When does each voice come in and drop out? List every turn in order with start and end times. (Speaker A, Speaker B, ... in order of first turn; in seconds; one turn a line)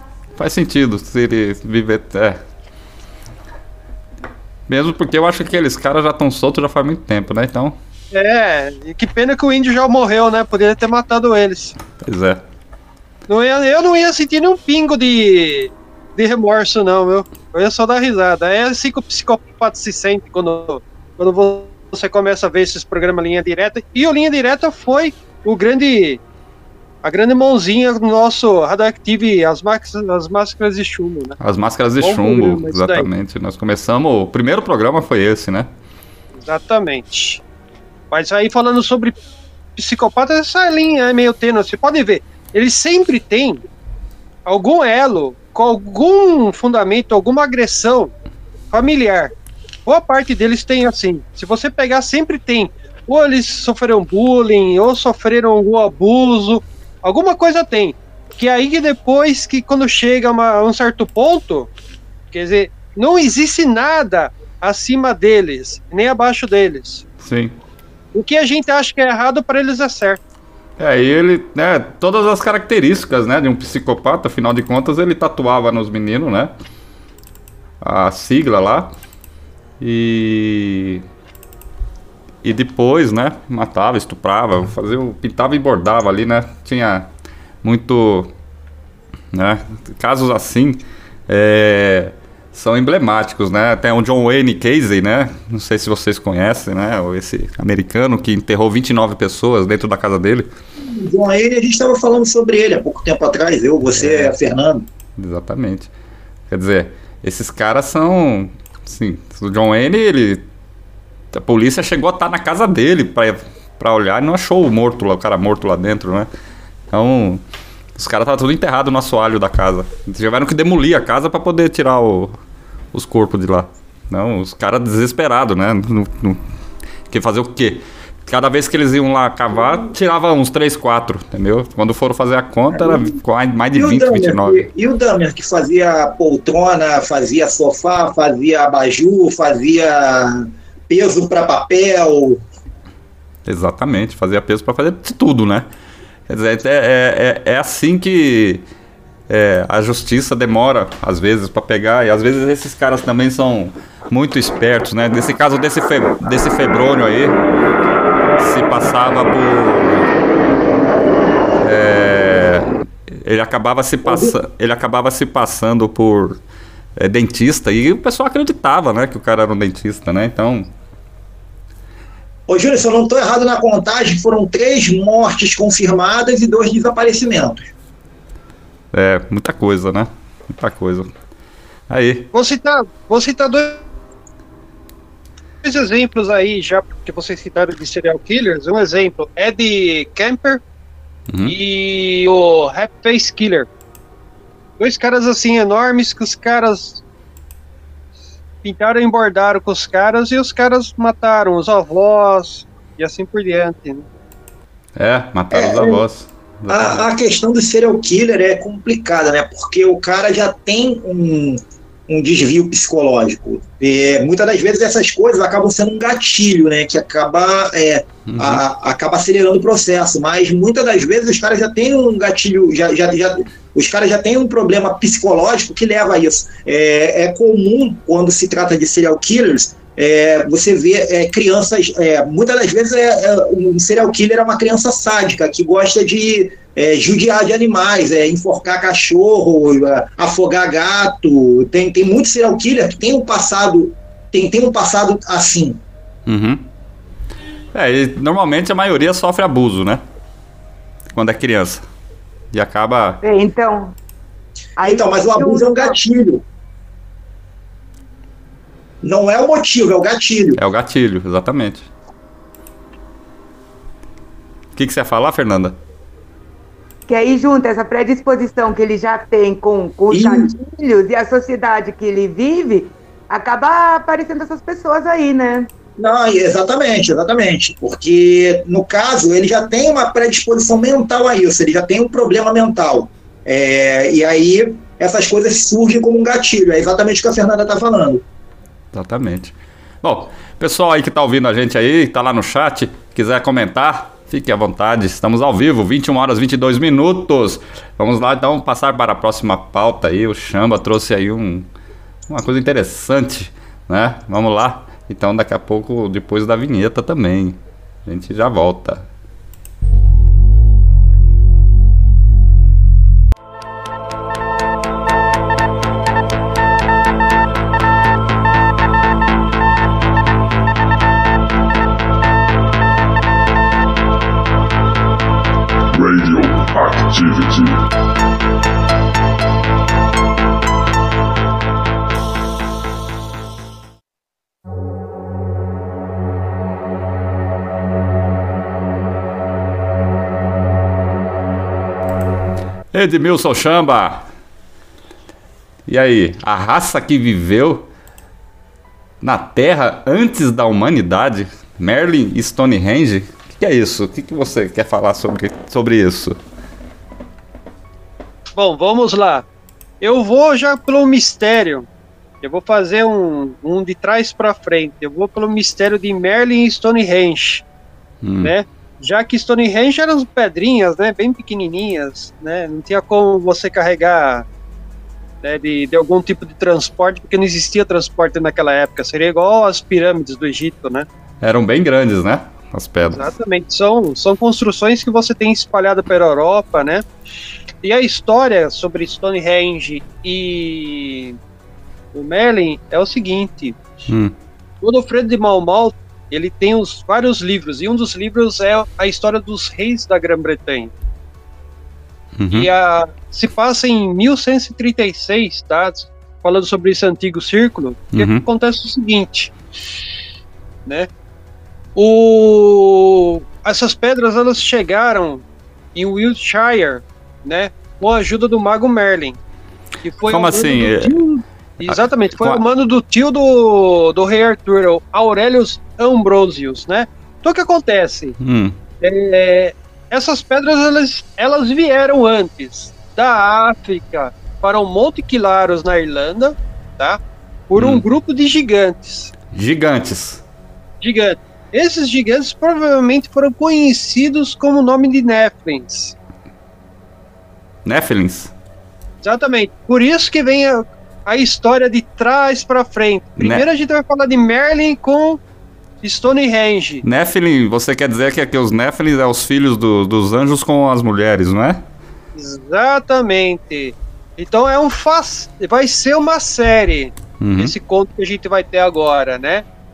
Speaker A: 0.4-2.4
Speaker A: 4.7-7.8
Speaker B: 8.1-11.8
Speaker A: 12.0-12.4
Speaker B: 13.3-26.2
Speaker B: 27.0-31.4
Speaker A: 31.4-35.7
Speaker B: 32.0-33.1
Speaker B: 36.4-37.4
Speaker B: 38.1-39.2
Speaker B: 39.8-43.6
Speaker B: 44.5-48.1
Speaker B: 48.7-49.3
Speaker B: 49.9-61.7
Speaker B: 62.3-67.0
Speaker A: 67.2-67.5
Speaker B: 68.1-70.2
Speaker A: 70.8-76.5
Speaker A: 77.8-78.9
Speaker A: 79.8-81.0
Speaker A: 82.4-87.1
Speaker A: 87.6-88.3
Speaker A: 89.3-100.5
Speaker C: 100.8-104.9
Speaker A: 103.9-104.3
Speaker A: 105.2-105.9
Speaker A: 106.5-110.4
Speaker A: 111.3-116.3
Speaker A: 116.9-117.4
Speaker A: 118.0-122.4
Speaker A: 122.9-126.4
Speaker A: 127.1-134.7
Speaker C: 132.7-133.1
Speaker C: 133.8-142.4
Speaker A: 143.5-145.7
Speaker A: 146.3-148.6
Speaker A: 149.3-157.3
Speaker A: 158.4-160.1
Speaker A: 161.6-166.4
Speaker C: 164.1-164.3
Speaker A: 167.0-170.7
Speaker C: 172.5-177.7
Speaker A: 178.9-181.1
Speaker A: 181.9-182.3
Speaker B: 182.3-183.9
Speaker B: 185.6-190.6
Speaker A: 191.3-191.6
Speaker B: 191.5-193.7
Speaker B: 194.8-197.0
Speaker B: 198.6-204.1
Speaker A: 205.0-207.1
Speaker C: 205.5-206.0
Speaker C: 206.7-245.8
Speaker A: 218.3-218.6
Speaker A: 246.3-246.7
Speaker A: 247.7-250.0
Speaker A: 251.1-251.8
Speaker A: 252.5-253.2
Speaker D: 253.2-253.9
Speaker D: 254.8-256.0
Speaker C: 254.8-256.4
Speaker C: 259.0-260.6
Speaker A: 260.6-261.9
Speaker A: 264.8-265.8
Speaker D: 267.1-275.7
Speaker C: 270.1-270.5
Speaker C: 276.0-288.2
Speaker A: 288.9-301.7
Speaker A: 302.3-309.0
Speaker E: 325.9-327.9
Speaker A: 342.9-344.3
Speaker A: 345.9-347.9
Speaker A: 349.2-356.4
Speaker B: 358.5-359.4
Speaker B: 360.0-361.9
Speaker B: 362.4-367.6
Speaker A: 368.2-368.5
Speaker B: 368.4-374.4
Speaker B: 375.4-381.1
Speaker A: 381.4-383.3
Speaker B: 383.1-387.1
Speaker B: 387.8-391.4
Speaker B: 392.1-393.8
Speaker A: 394.1-394.3
Speaker B: 394.8-400.9
Speaker A: 402.4-402.7
Speaker B: 402.5-409.5
Speaker A: 408.1-408.5
Speaker B: 412.0-415.4
Speaker B: 415.9-419.4
Speaker B: 420.0-428.4
Speaker A: 420.2-421.2
Speaker A: 421.8-422.6
Speaker A: 428.4-428.8
Speaker B: 429.0-439.3
Speaker A: 437.8-438.0
Speaker A: 439.5-440.4
Speaker B: 441.0-446.1
Speaker A: 447.9-448.5
Speaker B: 449.2-455.4
Speaker A: 453.4-453.6
Speaker B: 456.0-457.0
Speaker A: 457.0-461.8
Speaker B: 462.4-469.6
Speaker A: 467.4-467.7